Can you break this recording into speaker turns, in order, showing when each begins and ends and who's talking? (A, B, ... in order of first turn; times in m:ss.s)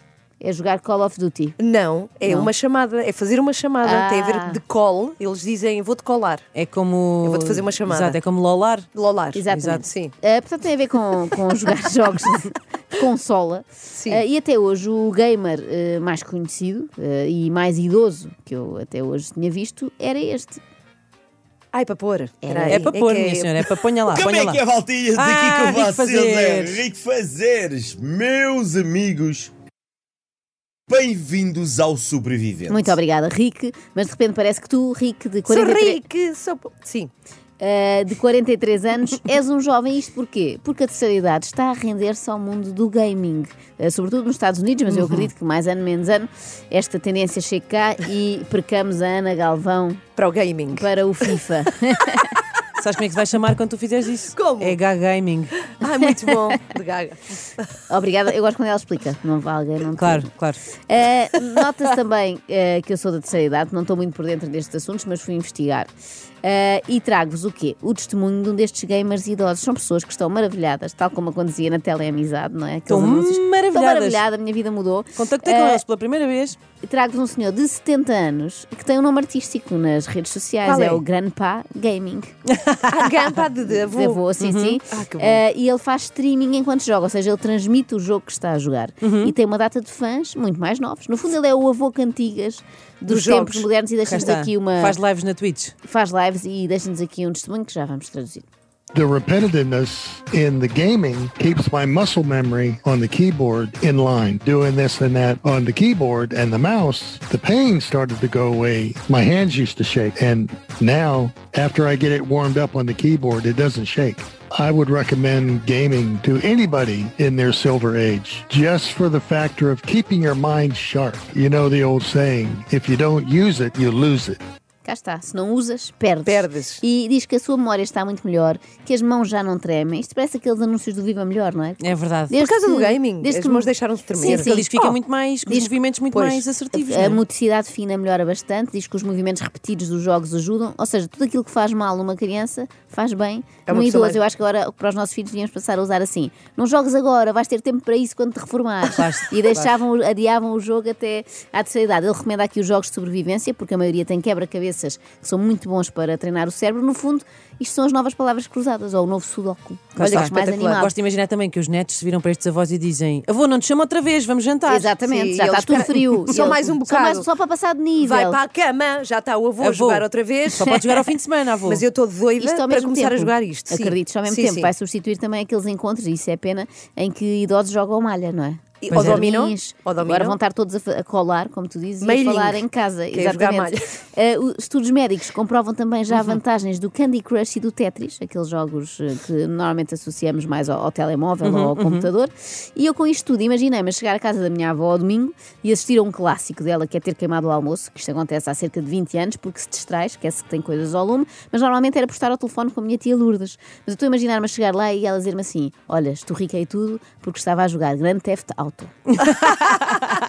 0:00.4-0:01.6 A
0:01.6-0:06.4 B
0:02.2-0:02.5 A
0:03.8-0:04.6 A
0:06.5-0:08.9 C
0:07.2-0:08.2 B
0:08.9-0:10.1 B
0:09.3-0:20.6 A
0:09.5-0:09.8 C
0:14.0-0:14.2 B
0:21.7-0:23.7 B
0:22.4-0:22.9 A
0:22.7-0:24.6 C
0:24.1-0:29.5 D
0:25.1-0:26.8 C
0:30.9-0:32.9 D
0:32.7-0:36.0 A
0:35.5-0:37.1 B
0:37.6-0:50.0 A
0:50.2-0:50.8 B
0:50.7-0:52.4 A
0:52.8-0:55.5 C
0:54.3-0:54.8 B
0:55.6-0:57.7 B
0:57.9-1:00.3 A
1:00.0-1:00.6 C
1:00.9-1:05.9 A
1:06.4-1:15.8 A
1:12.9-1:14.2 C
1:15.2-1:16.6 C
1:16.8-1:22.3 A
1:20.6-1:21.0 B
1:22.9-1:24.2 B
1:23.8-1:35.0 A
1:24.4-1:24.8 C
1:24.9-1:25.4 B
1:29.0-1:29.3 C
1:33.1-1:33.7 B
1:34.0-1:35.7 C
1:35.8-1:38.4 A
1:38.9-2:04.4 E
2:04.8-2:14.5 A
2:06.2-2:06.8 B
2:11.8-2:12.3 C
2:12.4-2:15.0 B
2:14.2-2:17.2 C
2:15.4-2:15.7 A
2:16.1-2:16.5 B
2:16.7-2:40.9 A
2:23.7-2:24.2 B
2:28.9-2:29.7 C
2:40.0-2:40.8 B
2:40.1-2:44.9 C
2:44.7-2:48.4 A
2:44.9-2:47.3 B
2:48.0-2:51.1 B
2:49.6-2:51.8 C
2:51.6-2:54.7 B
2:52.4-3:29.2 A
2:58.8-3:00.4 B
2:58.9-2:59.2 C
3:02.0-3:03.8 B
3:11.4-3:12.1 C
3:29.4-3:30.1 C